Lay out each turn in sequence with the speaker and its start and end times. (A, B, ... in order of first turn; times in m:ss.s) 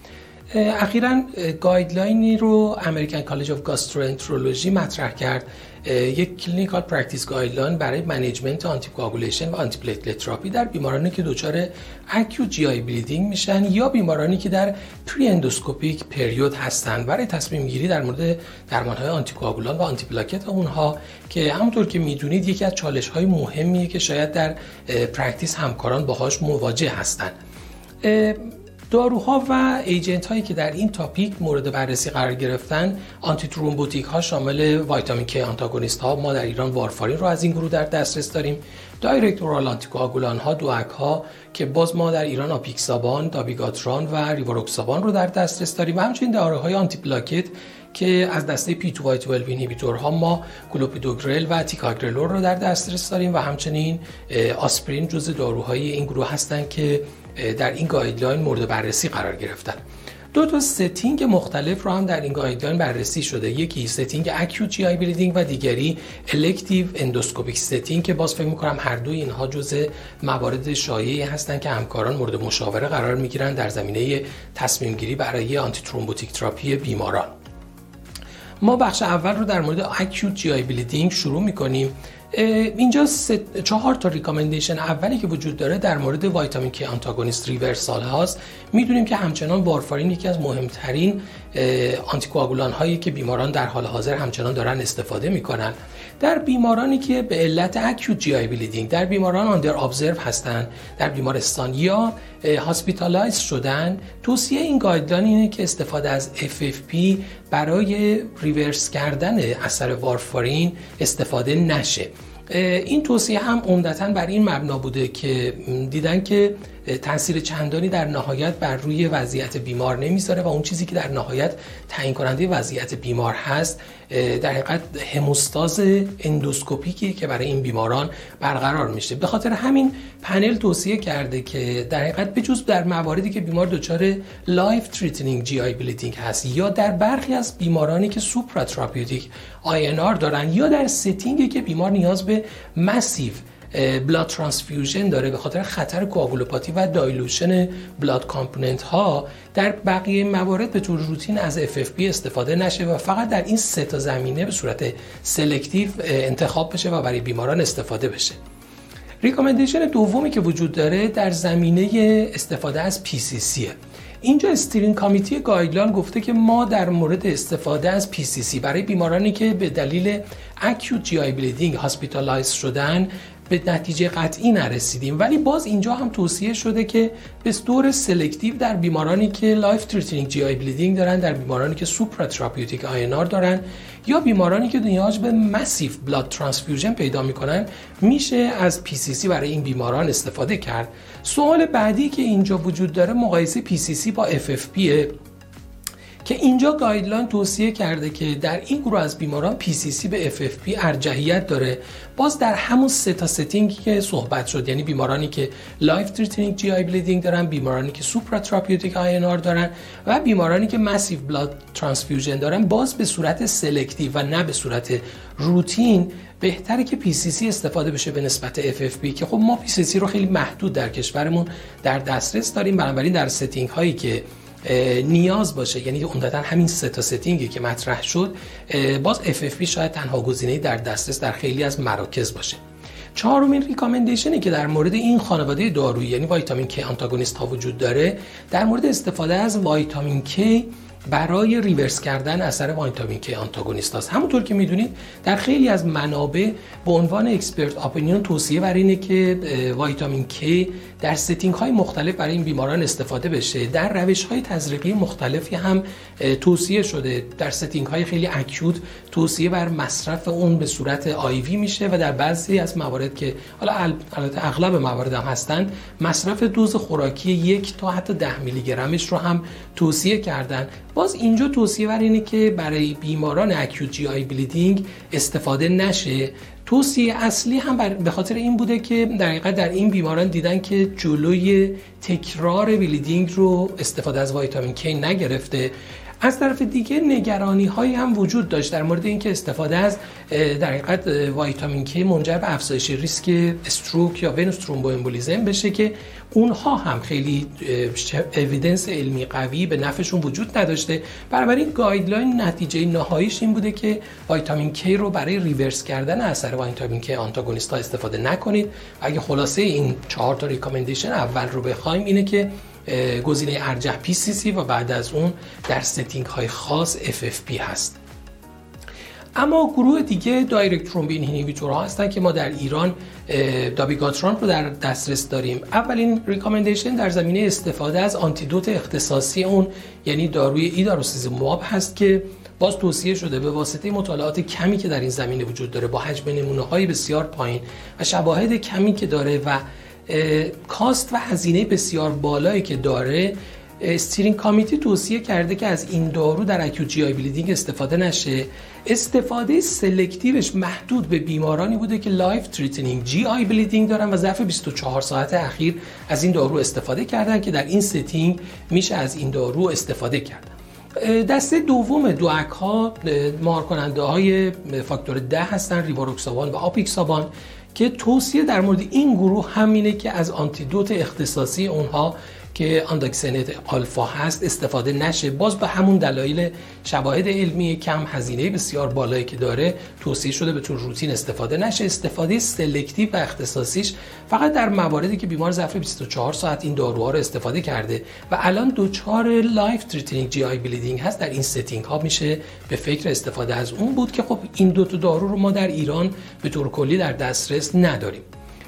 0:00.5-0:27.3 A
0:28.0-0:59.8 A
1:00.3-1:17.3 A
1:18.6-2:38.4 A
2:39.2-3:15.1 A
3:16.2-3:52.6 A
3:53.2-5:18.0 A
5:19.4-6:38.2 A